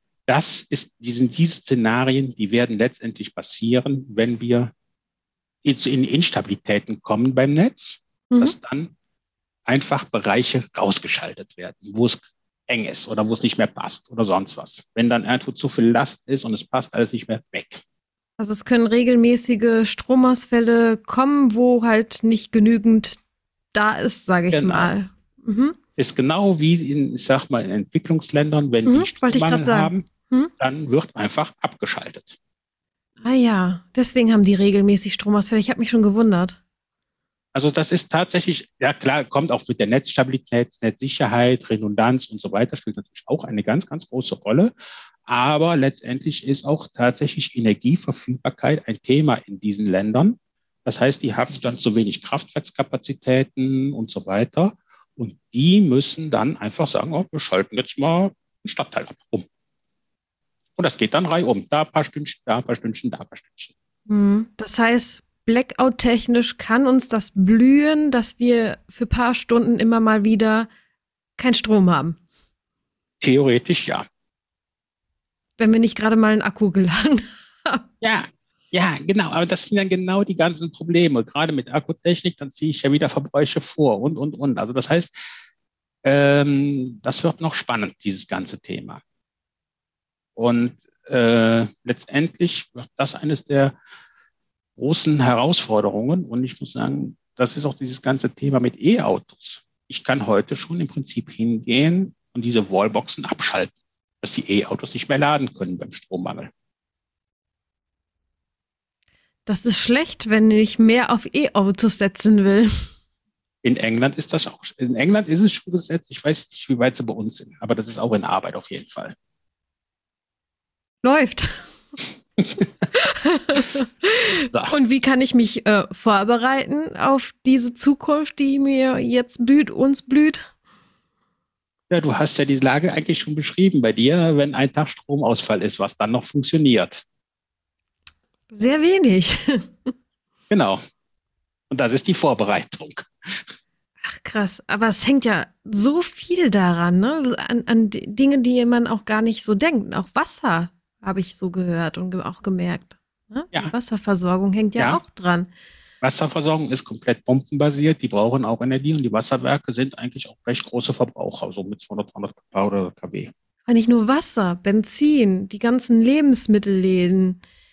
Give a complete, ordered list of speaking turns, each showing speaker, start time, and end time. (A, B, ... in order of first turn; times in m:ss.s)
0:00.3-0:04.7 A
0:05.6-0:08.9 A
0:09.7-0:17.8 A
0:18.4-0:23.2 B
0:23.7-0:25.8 B
0:24.5-0:24.9 A
0:26.0-0:30.1 A
0:28.9-0:30.5 B
0:30.6-0:32.4 A
0:33.2-0:36.6 B
0:37.5-0:44.7 A
0:45.3-0:59.4 A
1:00.8-1:03.7 A
1:04.1-1:10.7 B
1:11.4-1:12.2 B
1:13.2-1:14.1 A
1:15.6-1:17.8 B
1:18.0-1:25.1 A
1:26.0-1:29.0 A
1:30.4-1:33.8 A
1:34.8-1:46.5 A
1:49.5-1:52.8 B
1:53.6-1:59.2 A
2:01.0-2:01.7 B
2:02.4-2:02.7 A
2:02.9-2:10.5 B
2:11.9-2:17.0 A
2:18.5-2:19.9 B
2:20.5-2:20.8 A
2:21.7-2:23.5 A
2:24.0-2:35.5 B
2:36.0-2:43.3 A
2:43.7-2:47.4 B